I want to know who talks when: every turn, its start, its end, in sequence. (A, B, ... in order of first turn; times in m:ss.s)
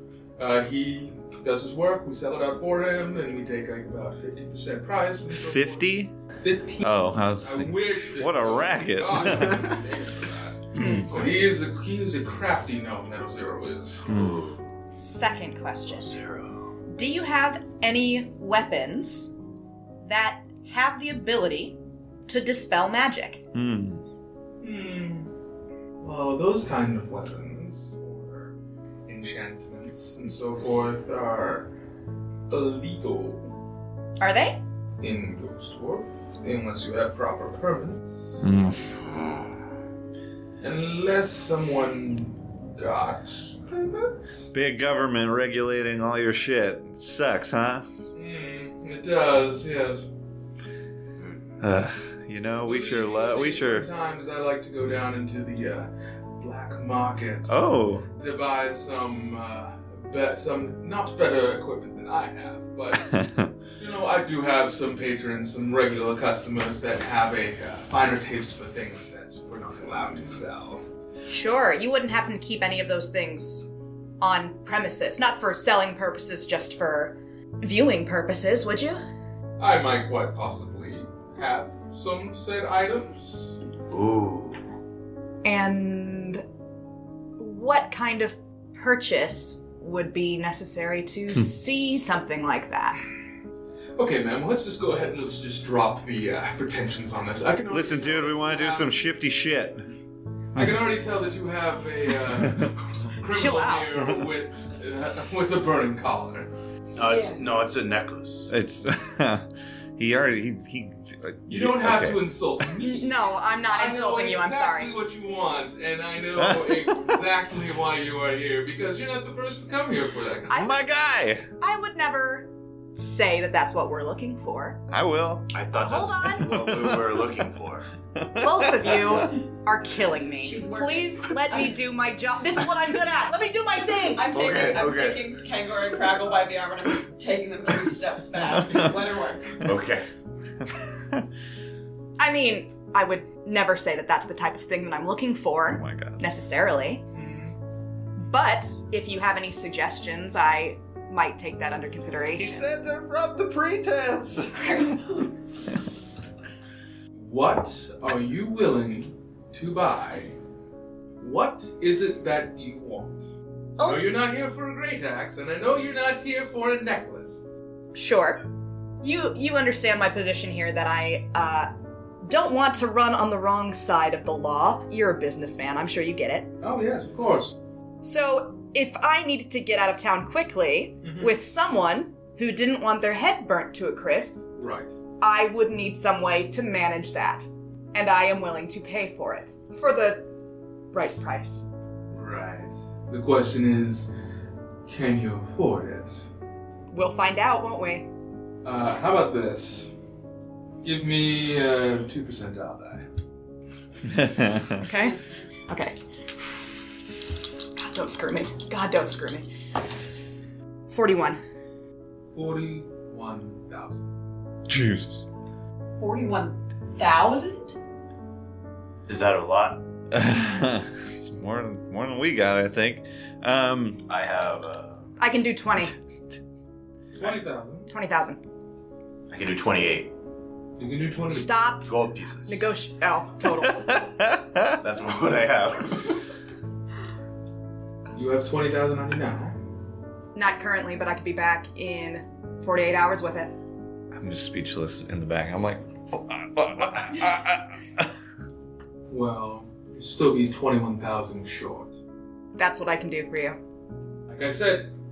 0:00.4-0:05.9 A
0:05.3-0:06.1 B
0:06.4-0:14.0 A
0:06.8-0:09.8 B
0:10.8-0:11.4 B
0:10.8-0:11.1 C
0:14.0-0:14.7 D
0:14.1-0:14.4 B
0:15.0-0:16.2 C
0:15.9-0:16.6 D
0:16.9-0:19.3 C
0:20.0-0:23.4 C
0:23.5-0:24.0 B
0:24.6-0:25.3 A
0:26.0-0:28.6 A
0:29.1-0:31.7 A
0:32.5-0:33.4 A
0:34.2-0:34.6 C
0:35.0-0:38.5 A
0:38.4-0:38.8 B
0:39.0-0:39.6 D
0:40.6-0:44.5 A
0:44.5-0:47.9 B
0:48.1-0:50.1 A
0:51.2-0:51.6 D
0:51.6-0:53.9 B
0:52.7-1:03.1 A
0:57.5-0:58.1 B
1:02.9-1:03.5 B
1:03.8-1:10.8 A
1:11.3-1:13.6 C
1:14.2-1:19.0 C
1:19.6-1:23.6 A
1:23.9-1:24.6 D
1:25.4-1:26.4 C
1:27.4-1:33.0 C
1:34.0-1:38.9 A
1:37.7-1:39.8 B
1:40.6-1:46.5 A
1:40.6-1:40.9 B
1:42.3-1:42.7 B
1:43.3-1:43.9 C
1:44.0-1:44.3 B
1:47.0-1:48.5 D
1:47.0-1:47.4 E
1:48.5-1:49.5 B
1:50.0-1:52.3 B
1:51.5-2:00.6 A
1:52.8-1:54.9 C
1:56.4-1:57.2 B
2:00.5-2:00.8 C
2:00.5-2:01.5 B
2:01.6-2:04.8 C
2:04.9-2:05.5 B
2:05.5-2:07.9 D
2:05.8-2:06.6 C
2:06.4-2:07.2 B
2:08.2-2:09.3 B
2:08.4-2:14.3 C
2:10.4-2:11.8 E
2:14.1-2:19.7 E
2:14.3-2:15.2 D
2:19.6-2:20.0 D
2:22.2-2:27.0 C
2:25.7-2:26.2 B
2:27.1-2:27.6 A
2:28.2-2:32.7 C
2:32.4-2:34.9 B
2:34.5-2:35.3 E
2:37.1-2:40.4 A
2:41.2-2:47.4 A
2:43.8-2:44.1 C
2:47.9-2:48.4 C
2:49.0-2:51.7 C
2:52.2-2:56.5 C
2:56.6-2:57.5 A
2:58.0-3:04.4 C
3:01.0-3:01.3 A
3:04.6-3:04.9 A
3:05.2-3:10.3 C
3:10.9-3:11.6 C
3:12.1-3:14.1 A
3:14.9-3:16.3 A
3:16.9-3:18.1 C
3:18.6-3:19.9 A
3:20.8-3:23.1 A
3:24.1-3:24.8 B
3:24.8-3:26.9 C
3:27.8-3:29.5 C
3:30.9-3:31.4 C
3:32.3-3:34.0 A
3:34.7-3:35.2 B
3:36.0-3:37.8 E
3:39.1-3:39.8 D
3:40.1-3:44.0 B
3:44.1-3:45.1 D
3:45.2-3:45.9 C
3:47.2-3:47.9 A
3:47.9-3:48.4 C
3:49.3-3:50.1 D
3:50.8-3:51.5 A
3:51.3-3:51.9 C
3:51.9-3:52.7 D
3:52.4-3:54.0 C
3:53.6-3:54.8 B
3:54.8-3:56.2 D
3:58.1-3:59.6 A
4:00.4-4:03.6 C
4:04.1-4:08.1 B
4:09.1-4:12.0 A
4:12.6-4:13.6 C
4:14.3-4:14.9 A